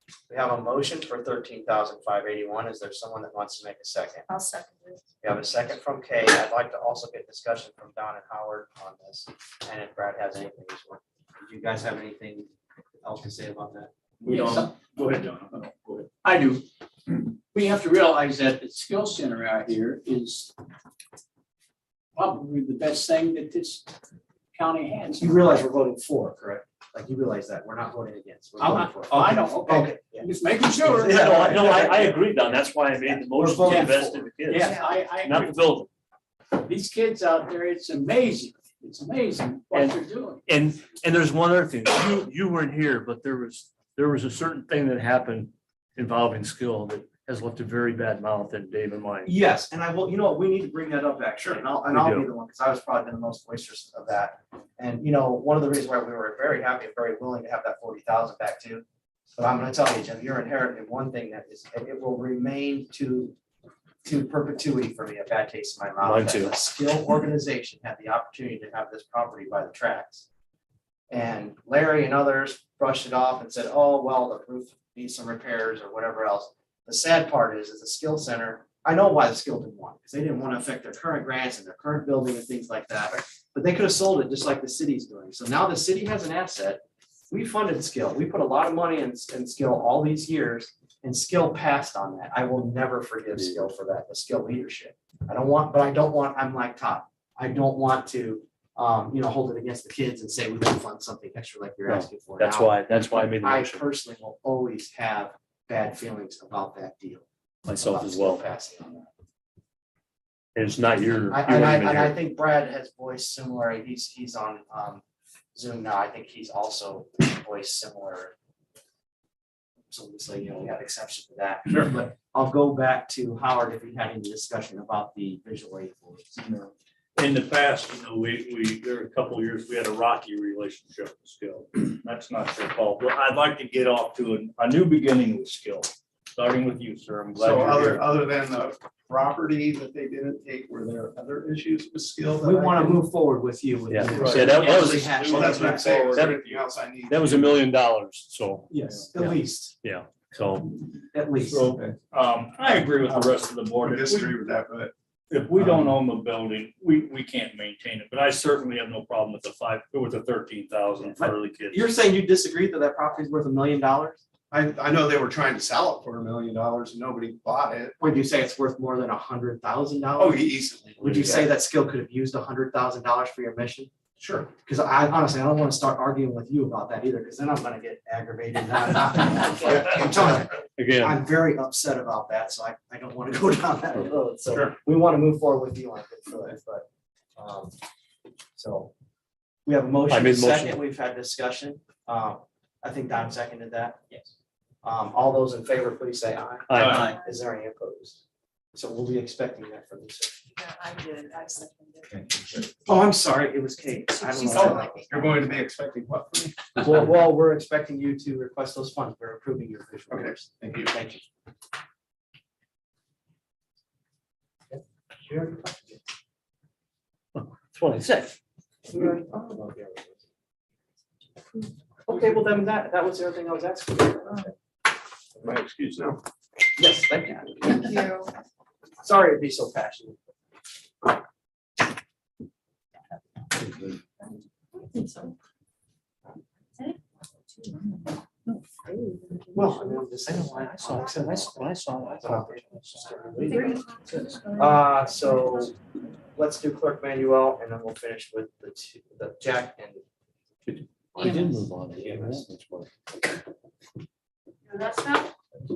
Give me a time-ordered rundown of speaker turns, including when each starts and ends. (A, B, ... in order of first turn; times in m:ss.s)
0:00.3-0:04.3 A
0:04.3-0:05.0 B
0:05.2-0:12.5 A
0:13.0-0:13.9 A
0:14.2-0:16.1 C
0:14.3-0:14.8 D
0:16.2-0:16.6 D
0:17.3-0:20.5 D
0:22.2-0:23.9 D
0:24.5-0:25.4 D
0:25.2-0:34.3 A
0:28.6-0:31.8 D
0:31.1-0:35.9 E
0:33.7-0:35.7 D
0:36.6-0:40.4 D
0:39.7-0:49.3 E
0:49.2-0:58.8 A
0:51.9-0:52.3 E
0:59.4-1:03.4 A
1:04.0-1:10.3 A
1:06.0-1:06.5 E
1:11.1-1:47.3 A
1:41.9-1:43.8 E
1:47.7-1:48.4 E
1:47.8-1:49.1 A
1:50.6-1:52.2 E
1:51.3-1:55.0 A
1:55.6-1:58.3 A
1:59.9-2:06.4 A
2:06.4-2:18.1 C
2:17.4-2:23.0 F
2:22.4-2:26.4 A
2:23.9-2:30.8 E
2:24.1-2:24.8 C
2:24.6-2:27.6 F
2:28.7-2:29.8 A
2:31.1-2:31.8 A
2:31.4-2:34.5 C
2:32.8-2:34.9 F
2:35.3-2:41.8 C
2:41.2-2:44.2 A
2:44.5-2:48.0 F
2:48.0-2:53.9 A
2:50.2-2:51.5 F
2:54.2-2:54.5 F
2:54.6-3:07.8 A
3:00.8-3:01.2 E
3:04.5-3:04.8 F
3:08.6-3:08.9 A
3:09.7-3:14.2 A
3:10.1-3:10.8 E
3:14.8-3:18.2 A
3:16.7-3:17.1 E
3:18.8-3:20.5 A
3:20.6-3:22.1 B
3:22.9-3:25.5 A
3:24.3-3:25.0 B
3:24.5-3:27.0 F
3:26.8-3:31.2 A
3:30.1-3:31.0 F
3:34.7-3:36.0 A
3:37.4-3:38.4 E
3:38.9-3:40.2 A
3:42.1-3:44.5 A
3:46.8-3:48.0 A
3:47.8-3:48.3 B
3:49.0-3:50.3 A
3:54.7-3:55.3 B
3:58.9-3:59.6 B
3:59.5-4:01.7 A
4:00.3-4:03.7 E
4:02.2-4:03.6 A
4:03.5-4:04.6 B
4:04.6-4:05.7 A
4:06.4-4:10.0 A
4:10.7-4:12.9 E
4:11.2-4:12.4 A
4:14.7-4:15.3 B